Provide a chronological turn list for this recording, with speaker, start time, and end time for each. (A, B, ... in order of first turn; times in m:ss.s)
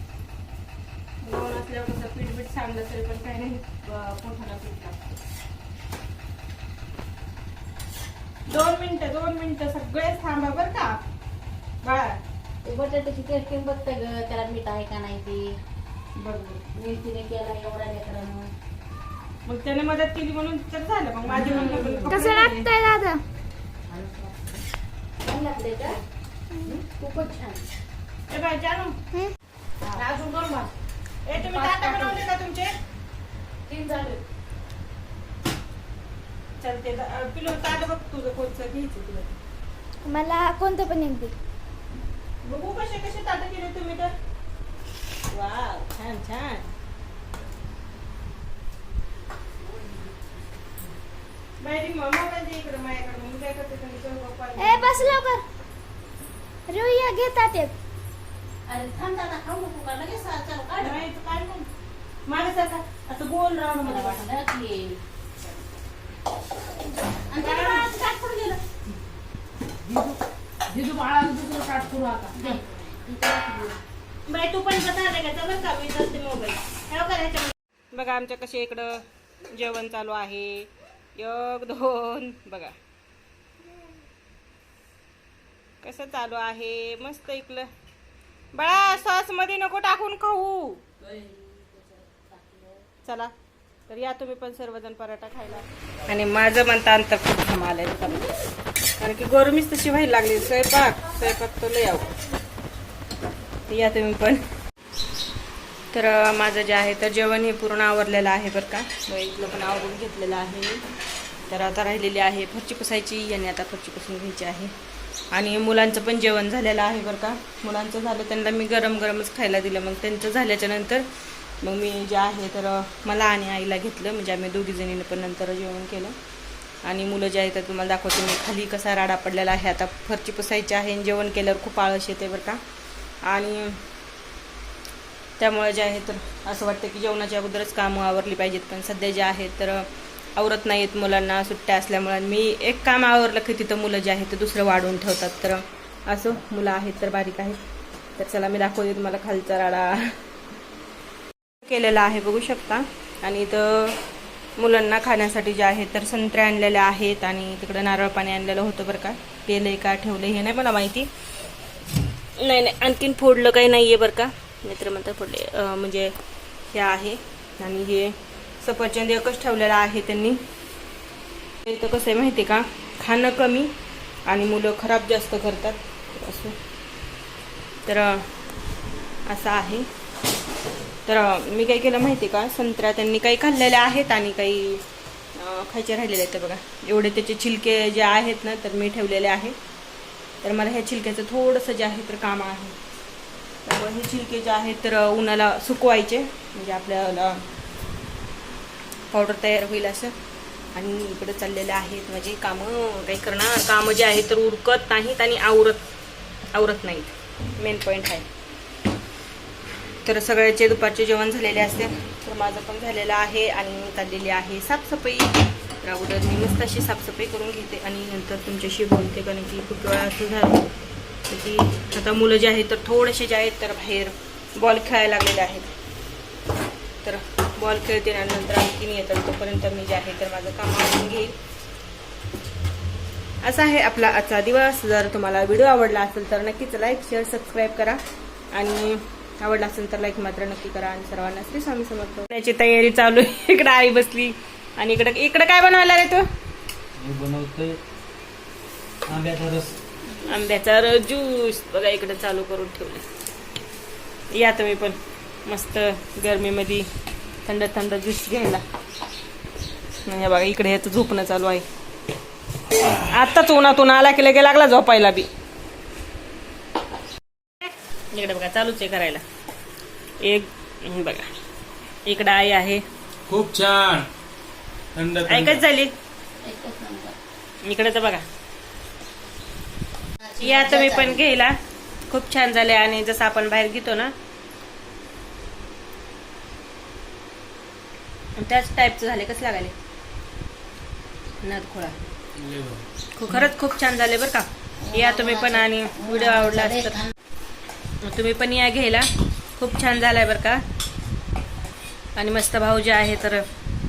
0:01.2-0:05.2 A
0:08.5-0:11.0 A
0:11.8-0:12.2 A
0:12.6-0:15.5 B
0:16.2-0:16.6 A
0:16.6-0:18.5 B
0:19.4-0:22.7 A
0:21.3-0:22.5 B
0:22.0-0:23.2 C
0:23.9-0:24.4 B
0:25.2-0:26.0 B
0:26.6-0:27.6 B
0:28.3-0:29.0 A
0:29.9-0:30.7 B
0:31.2-0:32.7 A
0:31.3-0:32.2 B
0:33.7-0:34.2 B
0:36.6-0:39.3 A
0:40.0-0:41.3 C
0:42.4-0:44.1 A
0:45.3-0:46.6 A
0:51.6-0:55.2 A
0:54.6-0:55.4 C
0:56.7-0:57.7 C
0:58.7-1:01.0 B
1:00.8-1:01.7 A
1:02.3-1:04.3 A
1:03.8-1:05.0 B
1:07.3-1:07.9 B
1:07.3-1:08.6 A
1:09.8-1:10.2 B
1:10.7-1:13.8 B
1:14.3-1:22.8 A
1:25.8-1:27.7 A
1:28.5-1:30.8 A
1:31.0-1:32.8 B
1:33.0-1:33.3 A
1:33.9-1:38.3 A
1:39.0-1:42.1 A
1:43.7-1:44.4 A
1:45.9-1:50.8 A
1:51.5-1:54.7 A
1:55.3-2:01.1 A
2:01.6-2:06.2 A
2:06.8-2:12.6 A
2:13.2-2:13.8 A
2:15.4-2:27.6 A
2:28.2-2:30.2 A
2:31.6-2:34.0 A
2:34.6-2:41.1 A
2:42.4-2:46.1 A
2:46.7-2:50.4 A
2:51.6-2:53.7 A
2:54.2-2:56.6 A
2:57.8-2:58.3 A
2:59.2-2:59.9 A
3:01.0-3:04.8 A
3:05.4-3:09.5 A
3:10.4-3:12.8 A
3:13.6-3:17.4 A
3:19.1-3:20.1 A
3:20.7-3:25.9 A
3:26.5-3:28.3 A
3:30.0-3:40.6 A
3:41.3-3:45.7 A
3:47.0-3:51.3 A
3:53.4-3:58.0 A
3:58.5-4:06.3 A
4:07.0-4:07.8 D
4:09.1-4:09.7 D
4:10.2-4:13.0 A
4:14.3-4:16.9 A
4:17.4-4:18.6 A
4:20.0-4:21.6 A
4:22.9-4:25.3 A
4:28.1-4:29.2 A
4:30.2-4:31.3 A
4:32.0-4:32.8 A
4:33.3-4:34.1 D
4:34.9-4:35.6 D
4:35.2-4:35.9 A
4:36.4-4:37.2 B
4:37.6-4:38.2 A
4:40.2-4:41.2 B
4:40.4-4:41.6 A
4:42.1-4:44.1 A
4:48.4-4:49.7 A
4:51.4-4:52.0 A
4:53.1-4:57.0 A
4:54.8-4:57.0 B
4:58.0-5:00.6 A
5:02.2-5:03.4 A